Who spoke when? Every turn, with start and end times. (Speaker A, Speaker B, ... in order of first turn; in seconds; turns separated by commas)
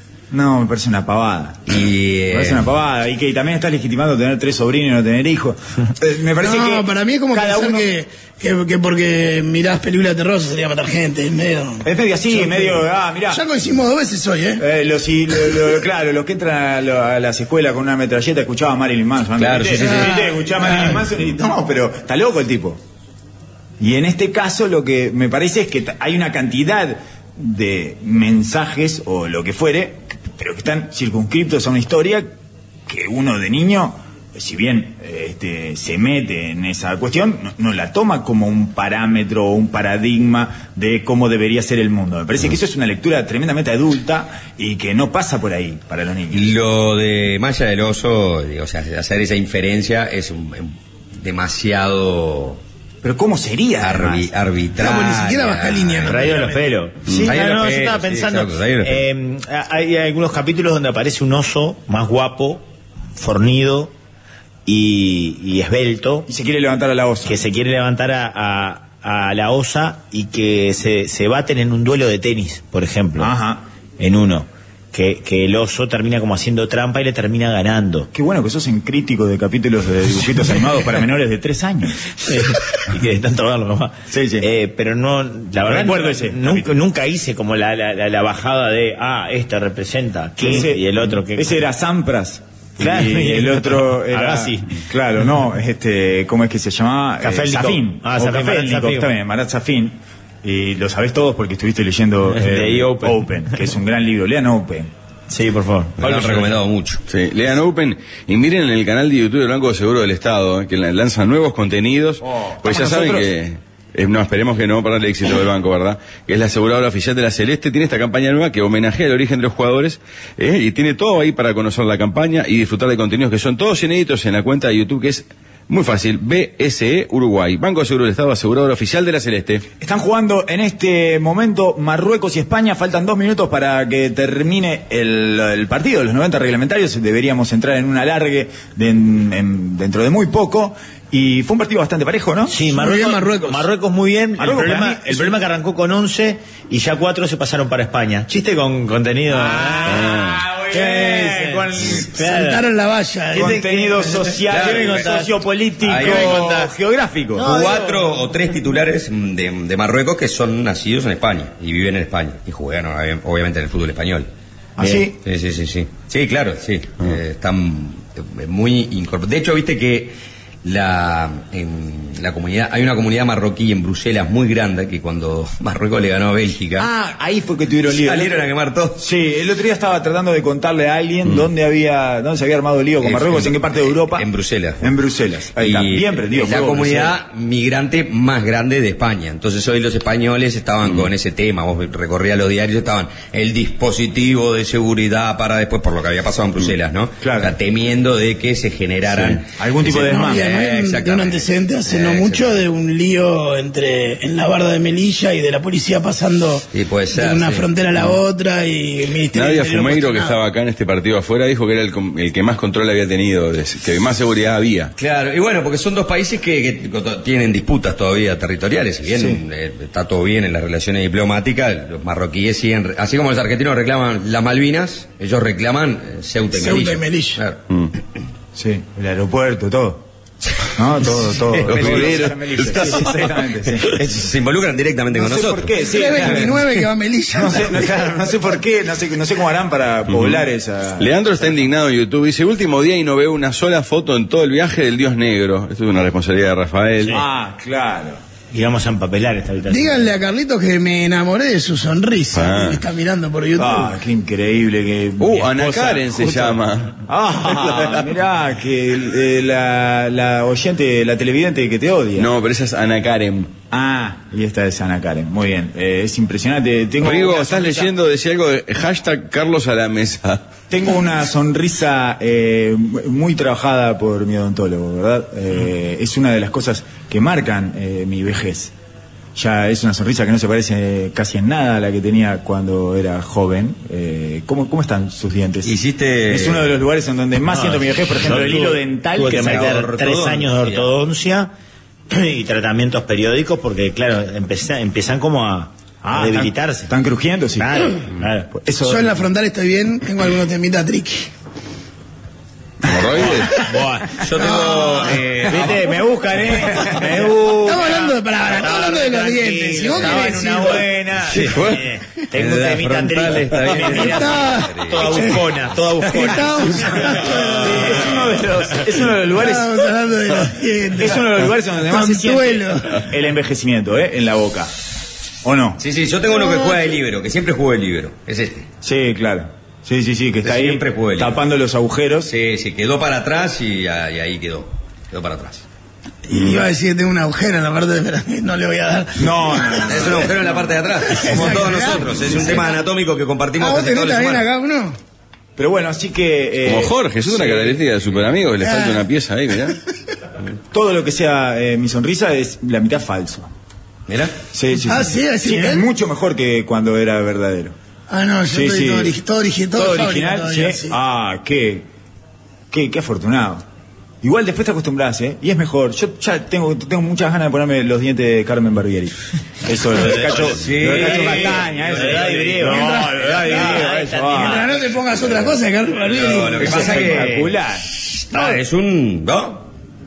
Speaker A: 0.3-8.0, Speaker B: 1.7-2.7, Speaker C: 6.4-12.7, Speaker A: 11.8-13.4, Speaker C: 13.3-14.6, Speaker A: 14.6-22.8, Speaker B: 19.4-20.3, Speaker C: 19.8-20.9, Speaker A: 23.8-32.3, Speaker A: 32.9-46.5, Speaker B: 46.3-52.6, Speaker A: 53.0-54.3, Speaker B: 53.8-56.5, Speaker C: 54.8-56.6, Speaker D: 56.0-63.9, Speaker A: 57.0-57.4, Speaker B: 57.2-59.0, Speaker D: 64.7-66.3, Speaker A: 66.3-67.4, Speaker D: 67.2-73.3, Speaker A: 73.2-73.6, Speaker D: 74.0-78.1, Speaker A: 78.1-82.3, Speaker D: 82.2-91.6, Speaker A: 84.1-84.5, Speaker A: 85.6-86.7, Speaker A: 90.4-104.9, Speaker D: 92.8-94.8, Speaker D: 97.2-99.1, Speaker D: 102.3-103.5, Speaker D: 105.3-106.5, Speaker B: 106.0-107.0, Speaker E: 107.1-129.7, Speaker A: 112.2-113.3, Speaker A: 129.8-142.6, Speaker D: 142.5-150.2, Speaker C: 142.7-143.6, Speaker A: 144.4-145.4, Speaker A: 149.3-152.1, Speaker E: 149.9-150.4, Speaker D: 150.7-152.7, Speaker C: 151.9-154.3, Speaker A: 153.3-157.5, Speaker D: 153.4-155.3, Speaker B: 154.5-155.1, Speaker B: 155.8-156.5, Speaker D: 155.8-156.7, Speaker D: 157.3-158.2, Speaker B: 157.4-164.3, Speaker A: 164.8-165.2, Speaker B: 165.2-176.9, Speaker A: 176.8-178.4, Speaker B: 177.9-179.0, Speaker A: 179.0-184.3, Speaker B: 183.0-184.9, Speaker A: 184.8-187.2, Speaker B: 185.6-202.6, Speaker A: 197.2-197.5, Speaker A: 199.1-200.5, Speaker C: 199.9-210.4, Speaker B: 206.7-207.7, Speaker E: 209.3-214.9, Speaker B: 215.0-227.6, Speaker A: 219.1-219.4, Speaker C: 226.5-227.4, Speaker A: 228.5-230.1, Speaker A: 230.7-234.1, Speaker E: 231.6-233.2, Speaker B: 233.8-236.7, Speaker A: 235.1-236.7, Speaker C: 235.8-237.9, Speaker A: 237.3-241.1, Speaker E: 240.1-240.4, Speaker E: 241.0-247.2, Speaker A: 247.1-248.2, Speaker D: 248.5-250.1, Speaker C: 249.7-253.9, Speaker E: 252.3-252.8, Speaker A: 253.6-262.3, Speaker E: 255.2-258.1, Speaker E: 262.2-263.6, Speaker A: 263.7-267.9, Speaker E: 267.0-270.4, Speaker A: 270.7-278.7, Speaker A: 279.3-285.8, Speaker B: 285.6-286.7, Speaker A: 286.3-289.8, Speaker D: 287.5-291.5, Speaker B: 289.2-290.9, Speaker D: 292.1-296.9, Speaker A: 296.0-297.9, Speaker D: 297.6-298.5, Speaker A: 298.5-299.1, Speaker C: 298.8-301.3, Speaker E: 302.8-303.6, Speaker D: 303.4-304.2, Speaker B: 304.2-306.0, Speaker C: 304.4-305.2, Speaker D: 305.4-318.2, Speaker A: 306.4-307.2, Speaker B: 307.0-307.8, Speaker C: 307.6-310.9, Speaker B: 311.3-315.4, Speaker C: 313.8-315.4, Speaker C: 316.1-318.2, Speaker A: 317.1-319.9, Speaker C: 319.2-323.1, Speaker A: 320.9-324.7, Speaker A: 325.4-325.8, Speaker B: 325.8-328.7, Speaker C: 326.3-326.8, Speaker A: 328.8-332.3, Speaker B: 330.4-331.4, Speaker B: 332.2-335.6, Speaker C: 336.3-340.3, Speaker A: 339.1-340.7, Speaker B: 339.9-344.4, Speaker C: 341.1-342.8, Speaker A: 341.3-341.6, Speaker A: 342.3-342.6, Speaker C: 343.6-345.0, Speaker A: 345.6-347.8, Speaker E: 346.6-349.8, Speaker C: 348.6-349.1, Speaker A: 350.7-353.5, Speaker B: 354.1-354.4, Speaker A: 354.5-357.8, Speaker C: 354.8-355.9, Speaker C: 358.1-360.9, Speaker A: 358.4-359.2, Speaker A: 359.7-361.9, Speaker A: 362.7-363.6, Speaker A: 364.2-374.7, Speaker D: 370.0-374.8, Speaker B: 370.4-372.3, Speaker C: 372.6-377.1, Speaker B: 376.0-379.7, Speaker A: 376.6-377.9, Speaker D: 376.8-377.5